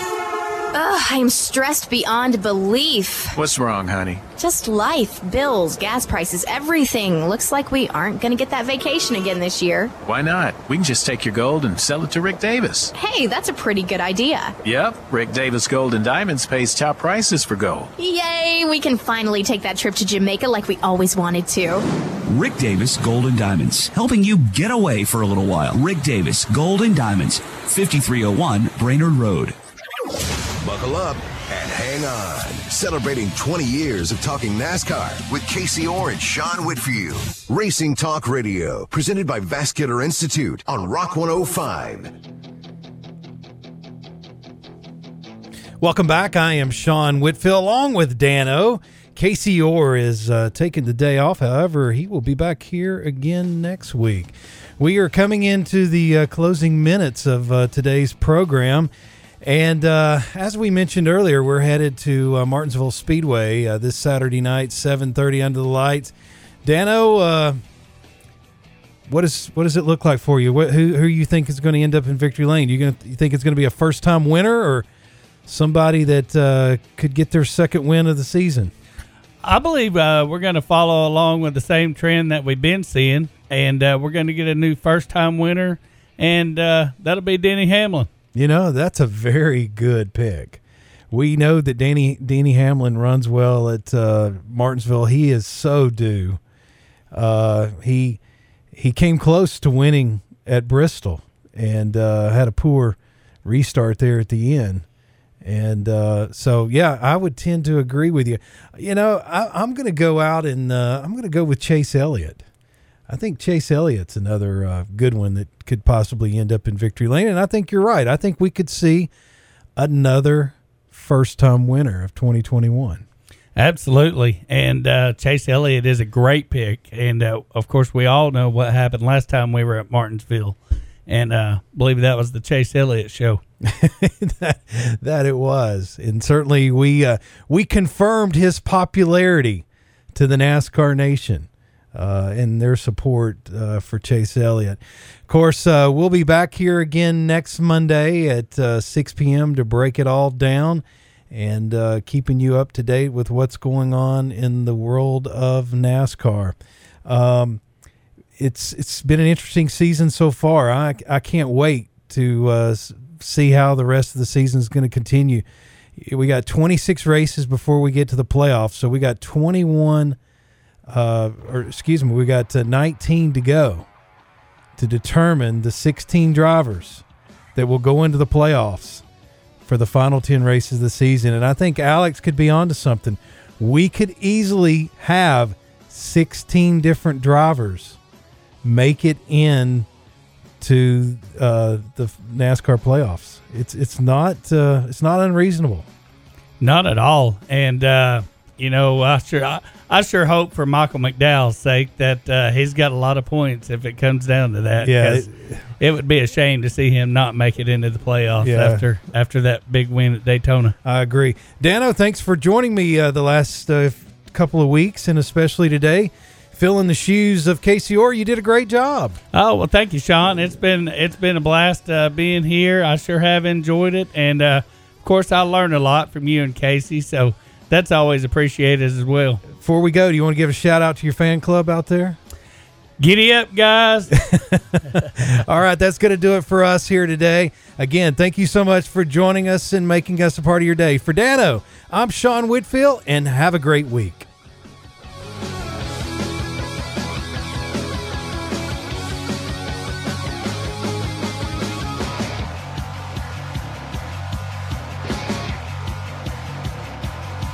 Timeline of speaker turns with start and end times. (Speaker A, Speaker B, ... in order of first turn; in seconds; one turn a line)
Speaker A: 0.7-3.3
Speaker B: 3.3-4.2
Speaker A: 4.4-9.9
Speaker B: 10.0-12.9
Speaker A: 12.9-14.6
Speaker B: 14.6-17.9
Speaker A: 18.0-21.8
Speaker C: 22.3-29.5
Speaker D: 30.6-42.1
Speaker E: 45.8-58.9
Speaker E: 59.4-67.6
Speaker E: 69.1-74.9
Speaker E: 75.5-78.7
Speaker F: 79.4-88.1
Speaker E: 88.3-96.4
Speaker E: 97.1-98.2
Speaker E: 98.7-104.8
Speaker E: 105.4-112.4
Speaker E: 113.1-119.1
Speaker E: 119.8-123.0
Speaker F: 123.5-133.4
Speaker E: 133.6-157.6
Speaker E: 158.4-165.4
Speaker E: 166.0-170.2
Speaker E: 170.9-173.9
Speaker E: 174.8-179.0
Speaker E: 179.6-188.0
Speaker E: 188.6-189.9
Speaker E: 190.6-195.9
Speaker F: 196.6-205.3
Speaker E: 204.8-205.6
Speaker F: 205.8-210.7
Speaker E: 208.4-208.8
Speaker E: 210.8-219.2
Speaker F: 219.3-229.4
Speaker E: 229.5-232.2
Speaker F: 233.0-234.1
Speaker E: 234.1-244.3